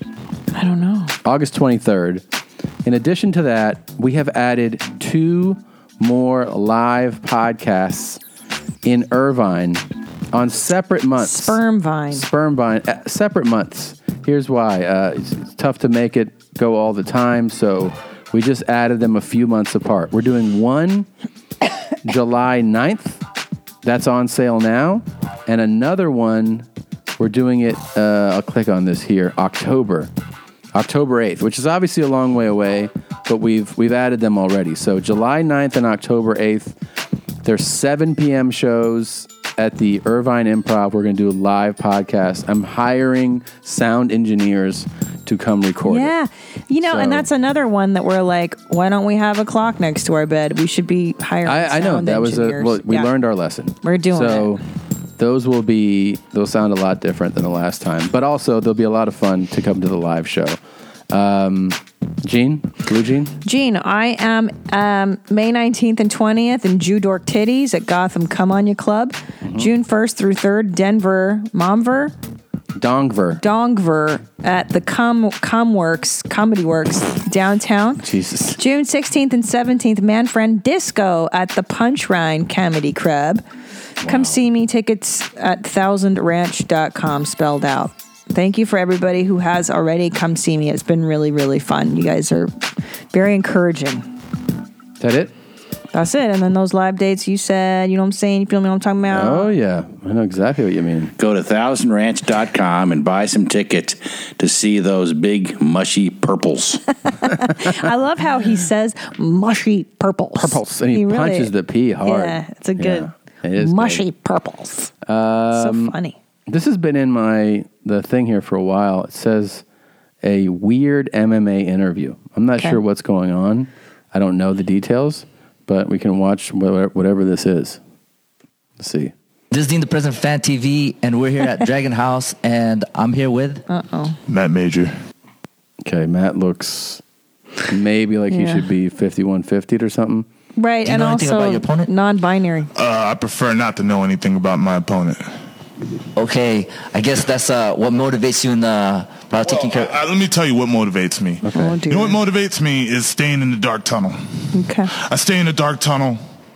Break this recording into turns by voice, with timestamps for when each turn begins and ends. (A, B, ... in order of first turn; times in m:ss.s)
0:00.5-0:01.1 A
0:01.2-0:02.2 B
0:02.8-0:08.2 B
0:08.8-0:11.6 B
0:11.2-0:12.3 A
0:12.1-0:21.1 B
0:22.0-0:23.2 B
0:23.8-0:26.6 B
0:27.2-0:30.1 B
0:30.7-0:36.8 B
0:37.4-0:46.1 B
0:45.8-0:53.1 A
0:46.8-0:47.3 B
0:51.4-0:54.6 B
0:53.8-0:54.6 A
0:55.2-1:00.6 B
1:01.1-1:03.3 B
1:03.4-1:12.1 A
1:09.4-1:09.7 B
1:12.8-1:13.4 B
1:13.4-1:18.0 A
1:18.0-1:18.6 B
1:18.6-1:23.4 A
1:24.0-1:24.4 B
1:24.0-1:32.5 A
1:33.1-1:34.1 A
1:35.0-1:35.3 B
1:35.9-1:39.5 A
1:39.1-1:41.2 B
1:41.2-1:46.7 C
1:47.0-1:51.5 A
1:50.4-1:54.0 B
1:52.0-1:54.9 A
1:55.0-1:55.9 B
1:55.5-1:56.2 A
1:56.5-1:59.6 B
2:00.2-2:07.8 B
2:08.8-2:09.1 B
2:09.5-2:13.6 D
2:13.7-2:14.2 A
2:14.3-2:14.9 E
2:15.8-2:17.0 B
2:17.7-2:20.2 B
2:18.3-2:18.6 A
2:20.6-2:22.7 A
2:20.8-2:21.9 D
2:22.8-2:25.2 E
2:26.1-2:29.9 D
2:29.4-2:36.2 E
2:31.4-2:31.8 B
2:31.5-2:32.2 A
2:34.5-2:34.9 A